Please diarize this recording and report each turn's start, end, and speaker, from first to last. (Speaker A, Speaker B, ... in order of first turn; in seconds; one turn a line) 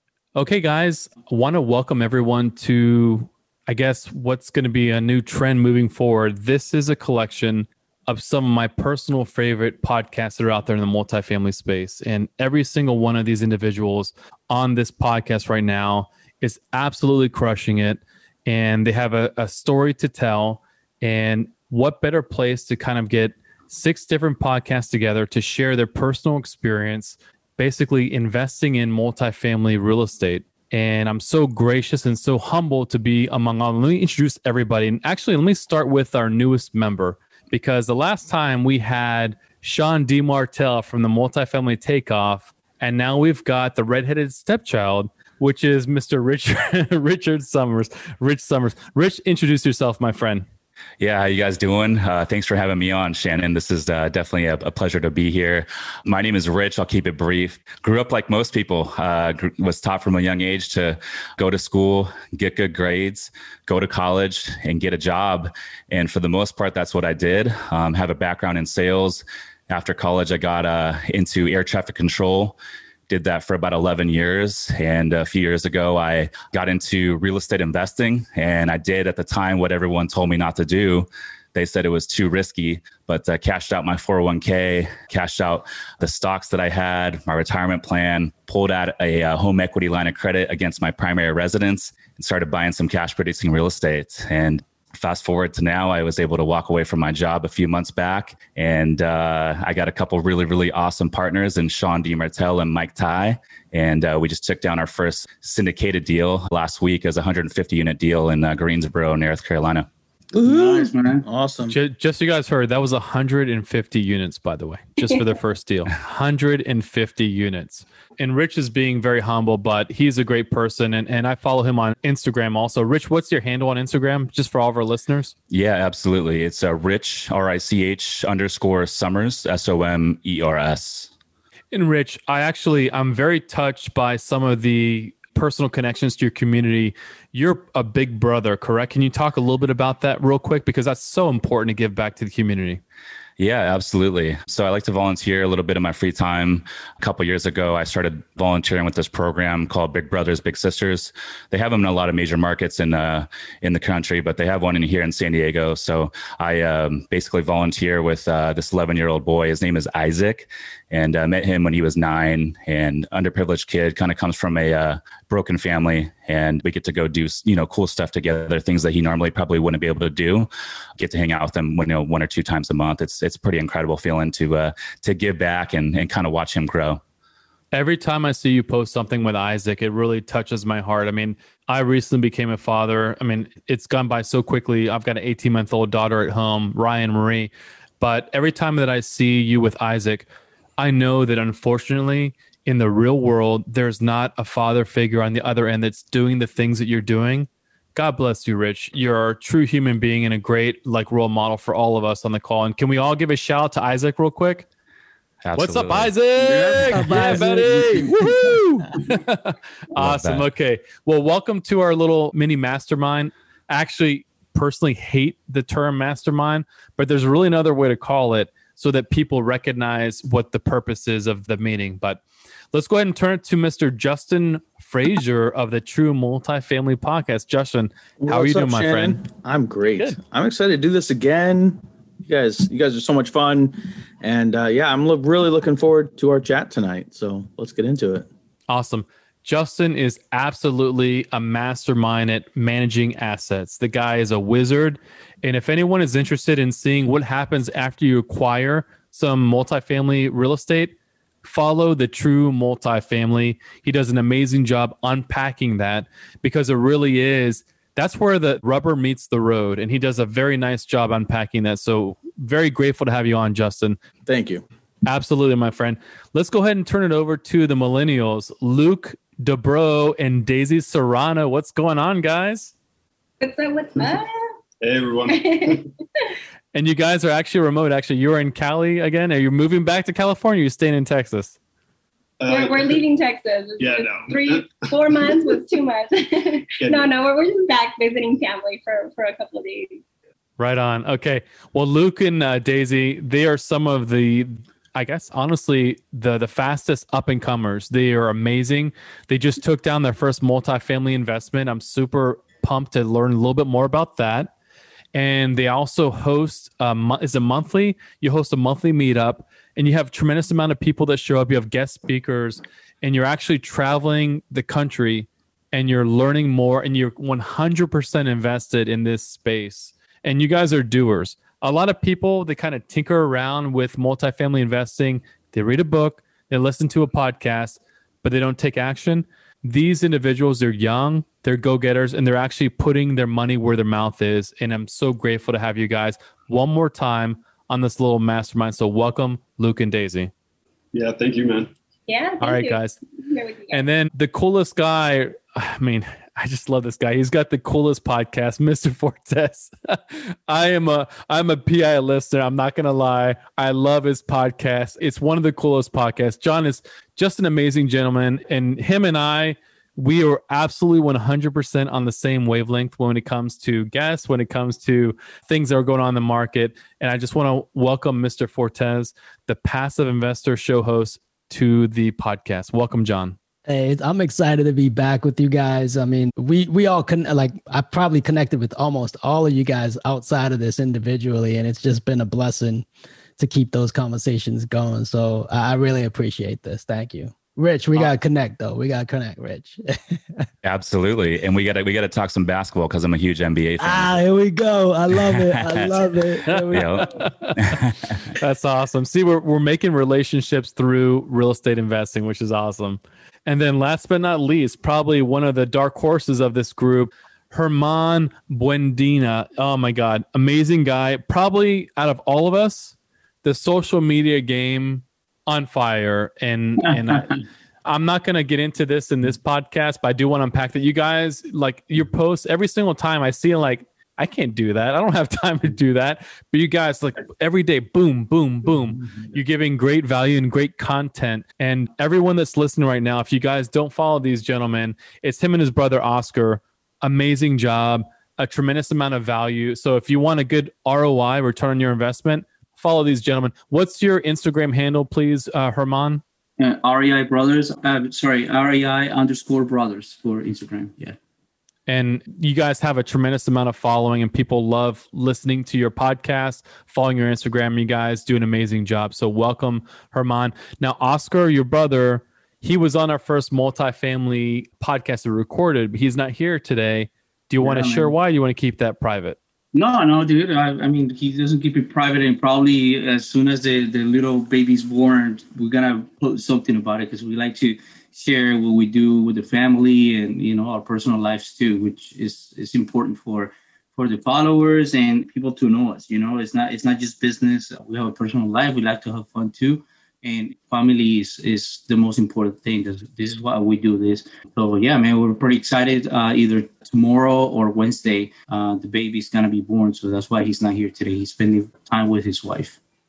Speaker A: 0.4-50.5
Speaker B: 51.0-72.6
Speaker B: 73.1-109.9
Speaker C: 110.3-111.8
Speaker D: 110.4-111.2
Speaker A: 111.7-125.3
Speaker B: 125.5-131.1
Speaker A: 131.7-142.8
Speaker B: 143.4-177.0
Speaker A: 177.7-190.3
Speaker A: 190.8-204.7
Speaker B: 205.4-206.1
Speaker A: 205.6-222.2
Speaker D: 206.5-207.5
Speaker E: 206.9-207.8
Speaker B: 209.9-210.5
Speaker A: 222.7-229.2
Speaker C: 228.2-238.3
Speaker A: 238.7-264.0
Speaker C: 264.3-264.6
Speaker A: 265.1-272.7
Speaker F: 273.4-274.3
Speaker G: 274.8-275.9
Speaker F: 275.3-276.3
Speaker A: 276.7-281.6
Speaker G: 282.4-283.0
Speaker F: 282.5-290.0
Speaker G: 283.8-285.4
Speaker G: 286.8-287.1
Speaker A: 290.6-304.5
Speaker A: 305.1-340.3
Speaker G: 340.9-341.7
Speaker F: 342.1-343.8
Speaker A: 342.4-343.0
Speaker A: 343.7-373.4
Speaker E: 373.7-382.9
Speaker E: 383.4-390.5
Speaker B: 390.6-394.2
Speaker E: 393.8-397.1
Speaker B: 395.3-398.1
Speaker A: 396.5-446.2
Speaker D: 446.6-451.2
Speaker A: 451.9-469.4
Speaker D: 467.6-468.1
Speaker D: 469.7-502.8